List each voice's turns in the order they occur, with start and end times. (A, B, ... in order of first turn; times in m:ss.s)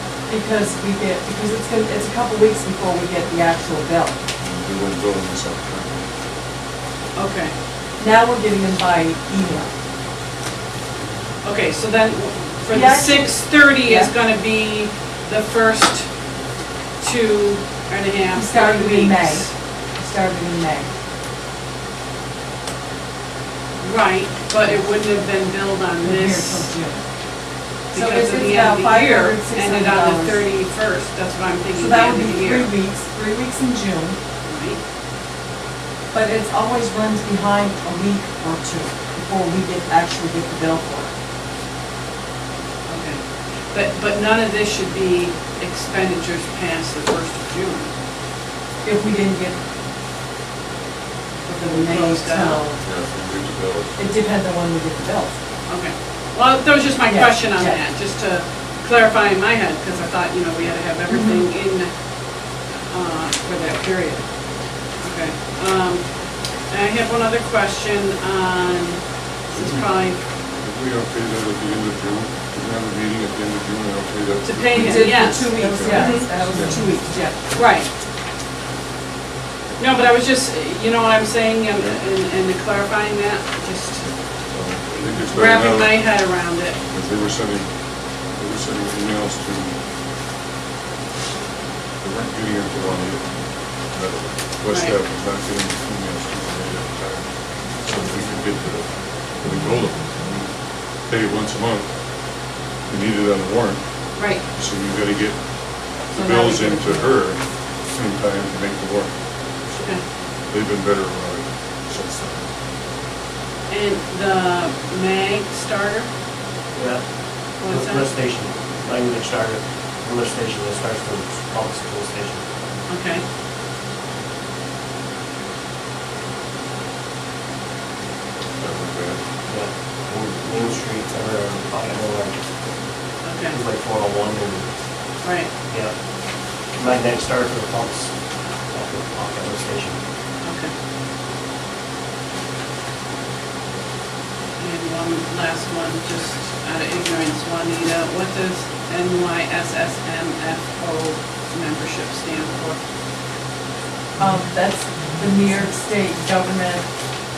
0:00.3-0:04.2 A
0:04.4-0:06.0 B
0:07.1-0:07.5 C
0:08.0-0:09.7 A
0:11.4-0:16.1 C
0:12.7-0:14.2 A
0:17.0-0:19.5 C
0:18.3-0:20.9 A
0:23.8-0:26.7 C
0:26.0-0:27.0 A
0:27.9-0:30.4 A
0:27.9-0:32.7 C
0:31.7-0:34.2 A
0:34.4-0:34.8 C
0:36.1-0:41.1 A
0:42.9-0:47.9 C
0:48.8-0:49.6 A
0:51.4-0:52.8 A
0:51.6-0:52.6 C
0:52.8-0:54.0 B
0:54.0-0:55.4 A
0:55.7-1:01.9 C
0:57.0-0:57.8 A
1:01.1-1:01.4 A
1:02.9-1:04.2 C
1:05.0-1:06.1 C
1:06.7-1:10.2 C
1:10.6-1:16.8 B
1:14.4-1:16.3 C
1:14.8-1:17.4 A
1:17.5-1:17.9 C
1:19.8-1:24.1 C
1:24.5-1:26.2 B
1:25.0-1:26.8 C
1:26.9-1:27.7 B
1:28.4-1:29.7 B
1:32.0-1:33.3 B
1:33.8-1:37.3 B
1:34.7-1:35.0 C
1:37.8-1:40.5 B
1:41.1-1:41.9 B
1:42.9-1:43.8 B
1:44.2-1:44.4 C
1:44.4-1:45.4 B
1:46.1-1:49.1 B
1:46.1-1:47.2 A
1:50.5-1:52.5 B
1:53.7-1:56.1 C
1:56.7-1:57.0 D
1:57.6-1:58.0 C
1:57.6-2:02.4 D
2:02.9-2:03.2 C
2:08.6-2:09.2 B
2:09.4-2:12.3 D
2:13.2-2:13.6 C
2:13.5-2:14.7 D
2:15.2-2:15.5 C
2:15.7-2:15.9 D
2:16.8-2:18.1 D
2:18.7-2:20.0 D
2:20.4-2:20.7 C
2:24.6-2:32.8 C
2:34.2-2:36.8 A